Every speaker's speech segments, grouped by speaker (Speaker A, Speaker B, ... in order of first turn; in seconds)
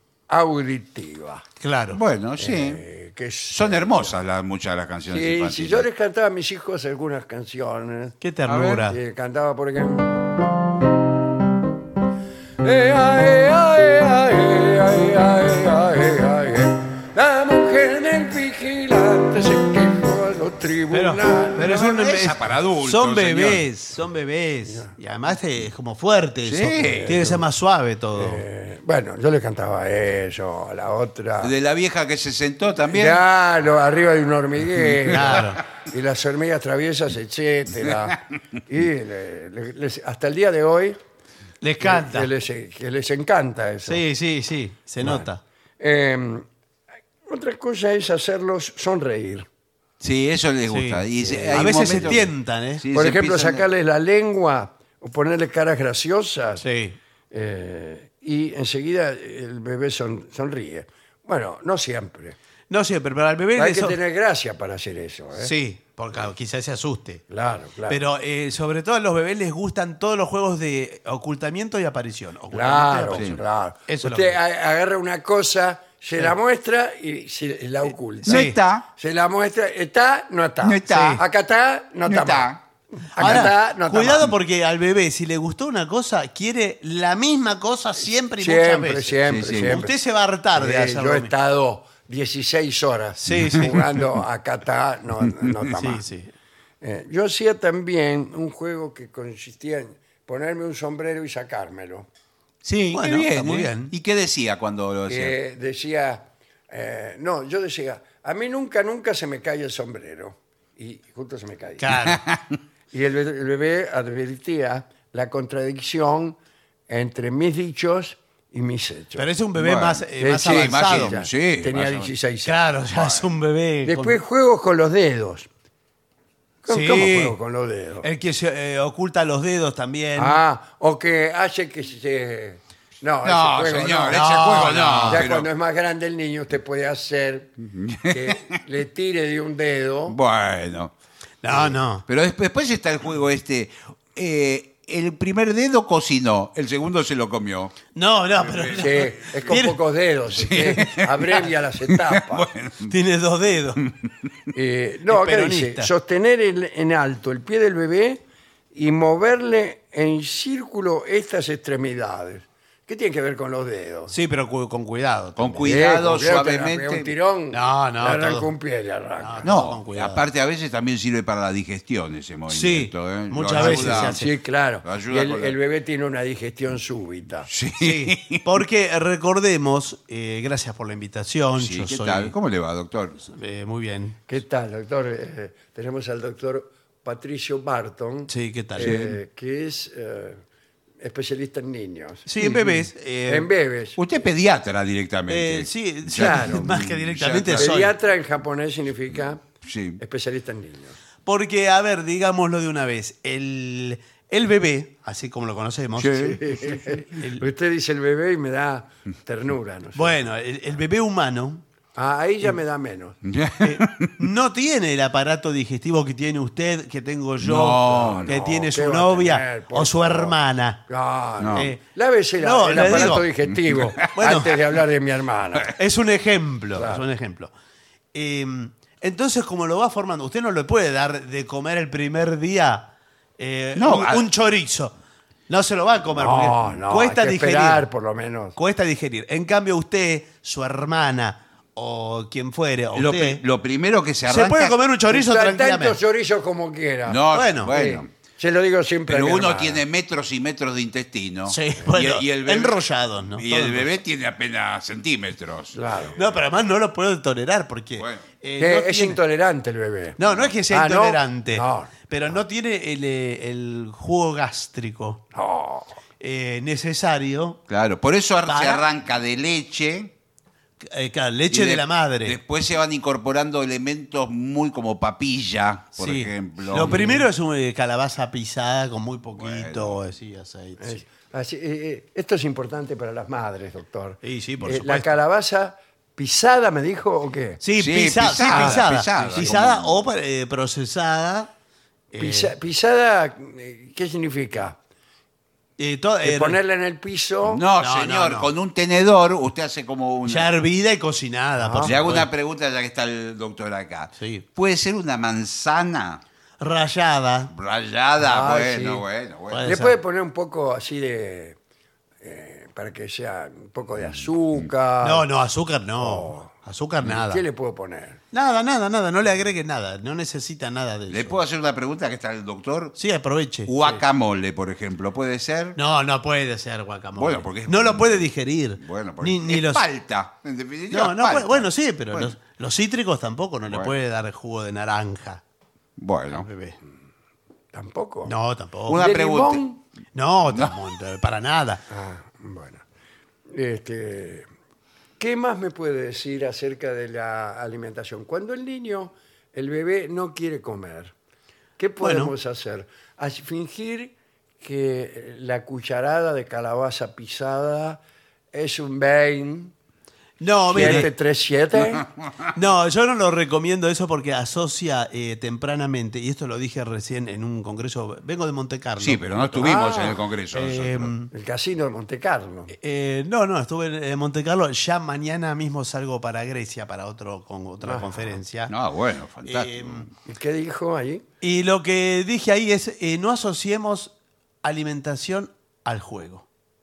Speaker A: 0.3-1.4, 2.4-4.2, 5.1-8.2, 8.9-10.1, 12.6-21.8, 26.8-27.4, 28.1-31.5, 32.9-41.0, 41.8-44.0, 45.8-46.5, 47.3-49.5, 51.2-52.2, 52.9-56.6, 57.3-62.4, 63.5-65.5, 67.3-68.0, 72.5-82.6, 83.1-84.3, 88.4-90.0, 90.5-96.0, 96.8-102.1, 105.1-112.0, 112.9-116.4, 116.9-119.3, 120.2-122.5, 123.8-125.5, 126.6-128.1, 130.2-137.5, 138.1-140.2, 148.8-152.5, 154.5-158.2, 158.7-164.1, 165.6-169.5, 173.5-177.5, 184.3-190.4, 191.0-194.0, 196.1-196.7, 197.5-199.4, 200.0-200.9, 206.4-210.2, 211.9-213.2, 217.9-220.4, 220.9-225.8, 226.7-227.0, 236.2-238.6, 245.1-249.8, 255.7-256.2, 258.6-260.2, 260.7-262.1, 265.3-265.9, 280.8-287.6, 288.4-288.8, 292.1-294.8, 296.2-297.6, 308.2-309.0, 309.6-311.6, 312.2-315.2, 316.0-316.5, 317.0-318.2, 337.7-338.3, 338.9-339.8, 341.9-342.8, 343.5-344.5, 345.2-351.1, 351.8-358.0, 358.5-359.7, 360.7-362.1, 369.6-370.2, 371.3-372.7, 377.8-378.4, 380.2-381.2
Speaker B: 1.6-2.0, 8.2-9.0, 20.9-28.4, 35.1-35.6, 41.6-42.3, 43.9-45.4, 50.7-52.8, 56.6-57.0, 62.7-64.0, 65.3-67.2, 67.9-73.3, 73.9-74.4, 78.2-78.6, 80.9-81.2, 83.2-91.3, 93.2-93.9, 95.8-96.3, 102.9-103.9, 111.8-112.2, 119.2-121.1, 122.4-124.2, 126.7-127.4, 128.0-130.4, 134.1-135.2, 141.4-142.0, 147.9-149.8, 152.9-153.8, 155.1-155.9, 164.1-165.7, 167.5-168.5, 169.2-170.2, 172.5-174.3, 177.8-182.3, 183.2-184.2, 188.3-189.0, 192.2-193.5, 195.3-197.9, 201.2-207.4, 209.9-211.6, 213.6-220.8, 221.5-221.8, 222.4-223.3, 224.1-224.5, 225.8-227.5, 228.1-234.9, 235.5-237.9, 238.6-243.4, 244.3-246.0, 247.3-247.7, 251.5-253.9, 256.1-259.2, 260.2-265.2, 266.2-267.6, 268.4-268.8, 270.8-272.4, 276.0-281.0, 284.2-285.1, 287.6-291.5, 292.1-292.5, 295.8-296.6, 297.8-298.5, 300.2-302.3, 304.1-304.4, 306.6-307.5, 309.5-310.0, 315.0-317.4, 318.3-321.4, 322.9-324.0, 325.8-329.9, 330.9-335.4, 336.3-336.8, 338.2-339.1, 340.1-341.8, 352.0-352.3, 360.4-361.1, 362.5-369.5, 370.5-371.3, 372.7-378.7, 379.4-380.1, 381.4-386.4
Speaker C: 1.9-2.8, 3.5-5.9, 8.5-8.8, 21.6-23.6, 26.4-27.2, 31.4-33.2, 50.0-53.7, 73.1-73.4, 78.3-78.8, 80.6-81.2, 82.0-82.6, 89.3-89.8, 102.6-105.4, 112.1-112.5, 119.5-122.1, 122.9-123.2, 133.2-135.5, 137.6-138.5, 140.1-140.9, 142.1-147.8, 148.3-149.4, 150.3-152.9, 165.4-167.1, 169.4-174.2, 174.8-175.6, 177.5-178.4, 181.6-183.2, 188.8-189.1, 194.0-197.7, 199.6-200.0, 206.0-206.6, 213.2-214.1, 217.4-218.4, 221.4-221.7, 222.7-224.0, 233.8-234.3, 242.9-244.8, 247.1-248.1, 249.1-255.8, 258.0-258.2, 267.7-270.1, 271.5-277.2, 279.4-280.0, 287.8-290.0, 297.4-300.5, 301.8-306.2, 307.5-309.7, 321.1-322.9, 323.6-325.8, 327.1-332.3, 333.7-333.9, 336.0-336.4, 338.9-339.6, 360.7-361.1, 369.0-371.1, 378.7-380.1